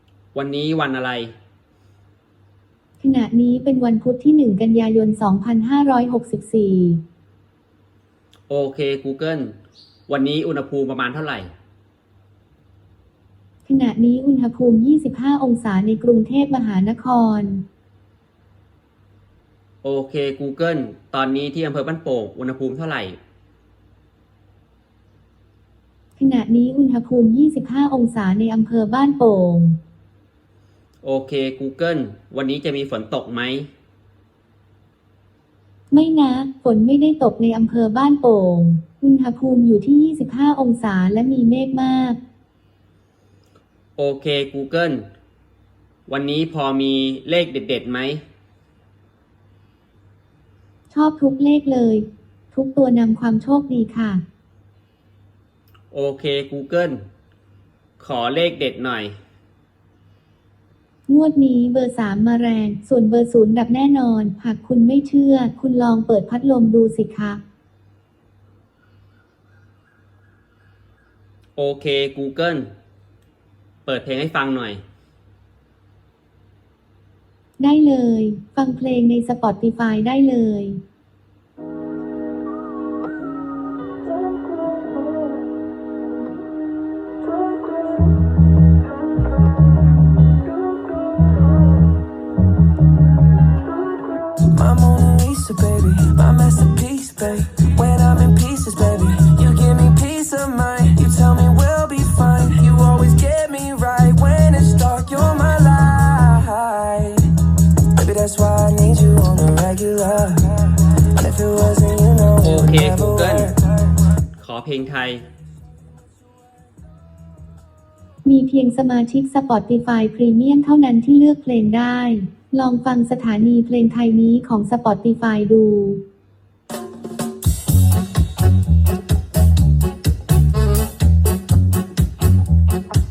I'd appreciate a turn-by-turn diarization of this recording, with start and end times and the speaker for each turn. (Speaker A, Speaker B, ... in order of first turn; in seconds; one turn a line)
Speaker A: 0.3-1.3
Speaker B: 3.0-7.0
Speaker A: 8.5-9.5
Speaker A: 10.1-11.5
Speaker B: 13.7-17.6
Speaker A: 19.8-23.2
Speaker B: 26.2-29.8
Speaker A: 31.0-33.7
Speaker B: 35.9-42.2
Speaker A: 44.0-45.1
Speaker A: 46.1-48.2
Speaker B: 50.9-54.2
Speaker A: 55.9-57.0
Speaker A: 58.0-59.2
Speaker B: 61.1-67.4
Speaker A: 71.5-72.7
Speaker A: 73.8-74.8
Speaker B: 77.6-80.8
Speaker C: 94.3-113.7
Speaker A: 112.4-113.5
Speaker A: 114.4-115.2
Speaker B: 118.2-126.0